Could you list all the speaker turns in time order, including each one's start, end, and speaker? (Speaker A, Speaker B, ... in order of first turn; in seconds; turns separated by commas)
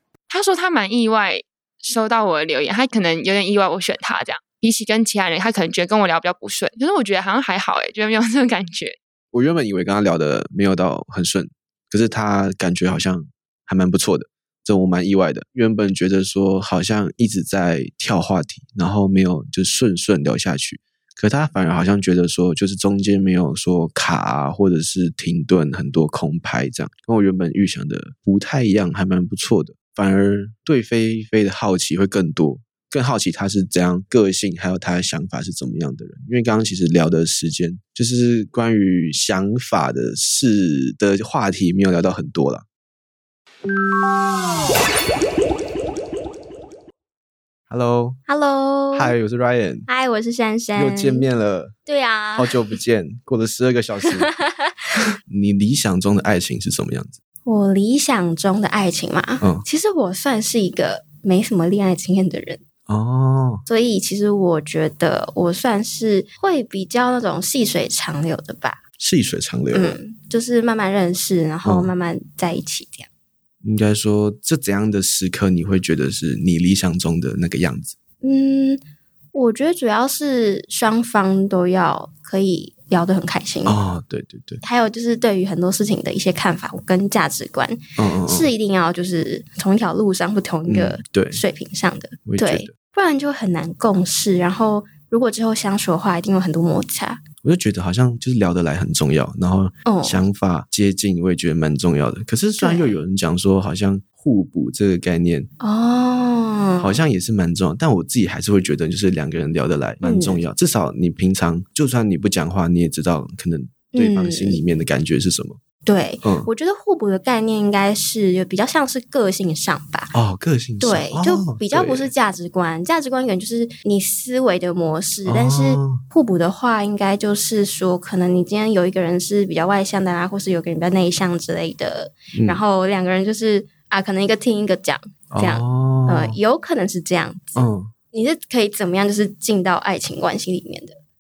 Speaker A: 0.3-9.0, Speaker B: 9.3-42.6, Speaker B: 47.7-48.2, Speaker C: 48.3-49.1, Speaker B: 48.9-49.9, Speaker C: 49.9-51.3, Speaker B: 50.8-51.8, Speaker C: 51.9-52.8, Speaker B: 52.4-54.3, Speaker C: 54.1-54.5, Speaker B: 55.3-57.2, Speaker C: 57.5-62.6, Speaker B: 59.4-59.7, Speaker B: 62.9-63.6, Speaker C: 63.7-68.8, Speaker B: 69.0-70.0, Speaker C: 69.7-73.1, Speaker B: 71.6-71.9, Speaker B: 73.6-78.0, Speaker C: 78.2-78.8, Speaker C: 79.3-83.8, Speaker B: 83.7-84.6, Speaker C: 84.6-97.2, Speaker B: 88.0-88.5, Speaker B: 90.7-91.4, Speaker B: 92.2-92.8, Speaker B: 97.4-105.5, Speaker C: 99.9-100.2, Speaker C: 102.6-103.0, Speaker C: 105.6-107.0, Speaker B: 106.8-115.6, Speaker C: 110.0-110.4, Speaker C: 113.9-114.6, Speaker C: 115.9-120.1, Speaker B: 116.2-116.5, Speaker B: 120.1-122.1, Speaker C: 120.8-141.0, Speaker B: 125.2-126.1, Speaker B: 132.3-132.6, Speaker B: 135.3-136.4, Speaker B: 137.6-137.9